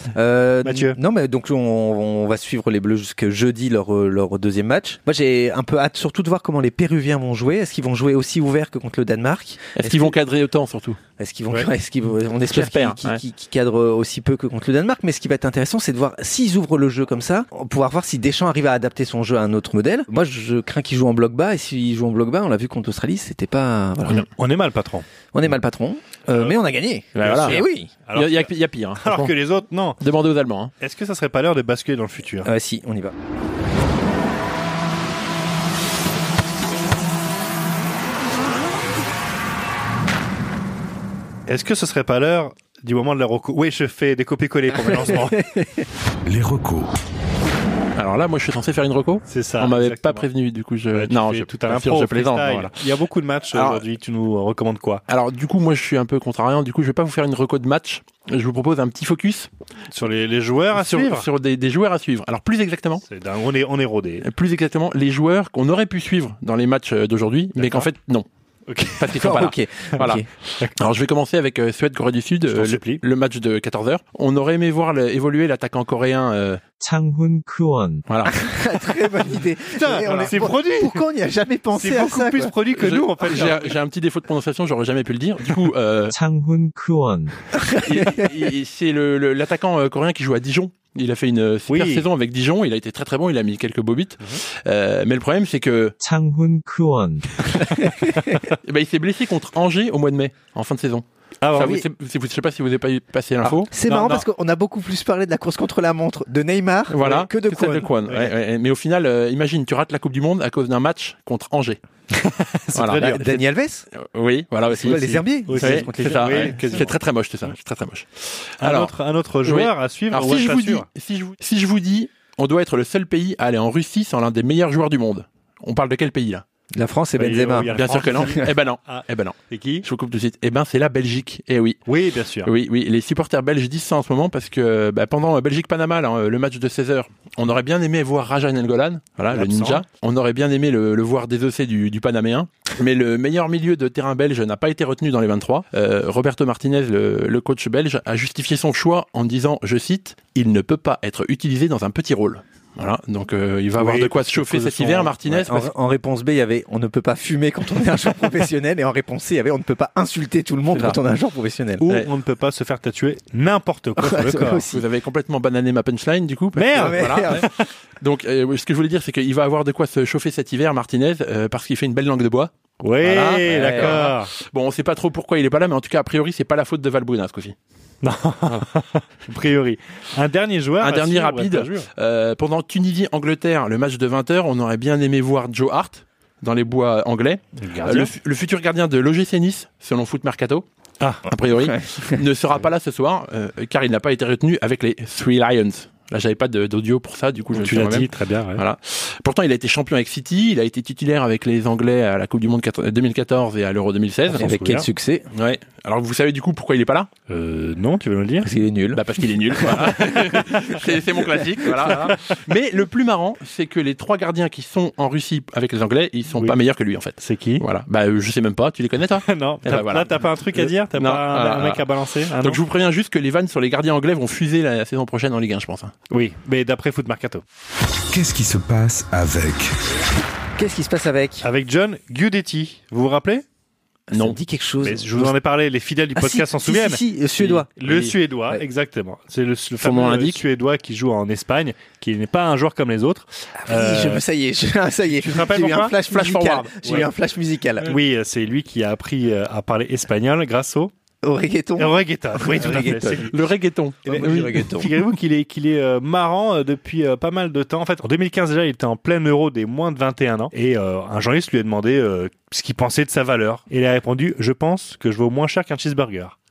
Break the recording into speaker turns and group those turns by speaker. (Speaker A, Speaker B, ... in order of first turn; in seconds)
Speaker A: 0.1-10.2, 11.2-24.3, 25.3-27.9, 32.4-33.1, 44.9-45.8, 69.1-70.2, 78.3-82.5, 97.7-98.3, 103.7-107.9, 113.1-113.9, 114.7-116.8, 126.8-128.5, 155.3-161.8, 164.0-164.8, 166.8-167.5, 173.5-174.0, 204.3-205.3, 208.4-210.1, 230.6-231.4, 234.1-235.3, 236.1-237.8, 243.6-248.0, 251.2-253.3, 254.1-255.0
Speaker B: 0.6-1.0, 24.2-25.1, 26.3-26.6, 27.2-30.0, 30.8-32.5, 41.5-45.4, 49.3-50.3, 50.9-55.0, 59.9-61.3, 63.0-64.2, 67.6-67.9, 68.7-69.5, 70.6-70.9, 72.5-73.0, 79.8-81.1, 81.7-83.8, 91.7-92.0, 101.4-101.8, 103.4-104.2, 108.1-108.3, 112.1-113.2, 114.8-116.9, 118.6-120.9, 127.2-129.8, 131.9-132.5, 139.3-139.8, 153.8-155.3, 161.8-164.6, 166.6-167.6, 172.8-174.3, 178.0-181.9, 187.6-188.1, 191.0-191.2, 197.5-198.6, 204.3-204.9, 207.3-208.5, 211.9-212.1, 217.2-217.6, 219.2-222.6, 226.1-227.4, 231.4-233.4, 234.8-237.0, 237.8-244.2, 245.1-247.1, 247.8-250.9, 251.8-253.3, 254.7-266.4
Speaker C: 9.8-11.0, 12.5-13.2, 27.2-27.6, 28.1-29.3, 30.0-30.7, 48.0-52.8, 53.5-53.9, 55.1-59.5, 60.7-63.0, 64.2-68.3, 69.0-70.2, 70.8-76.6, 80.0-80.5, 82.8-86.2, 87.8-96.0, 98.7-103.7, 106.9-111.8, 112.8-115.0, 115.6-118.9, 119.5-126.4, 127.7-131.8, 132.4-155.7, 164.7-167.5, 168.0-177.6, 180.8-190.7, 191.3-204.4, 205.3-207.1, 208.9-225.9, 234.1-234.4, 237.4-238.2, 239.8-240.4, 246.1-246.6, 253.3-254.6
Speaker D: 46.3-46.9, 228.1-229.7
Speaker E: 76.8-78.0, 86.1-87.4, 96.0-97.7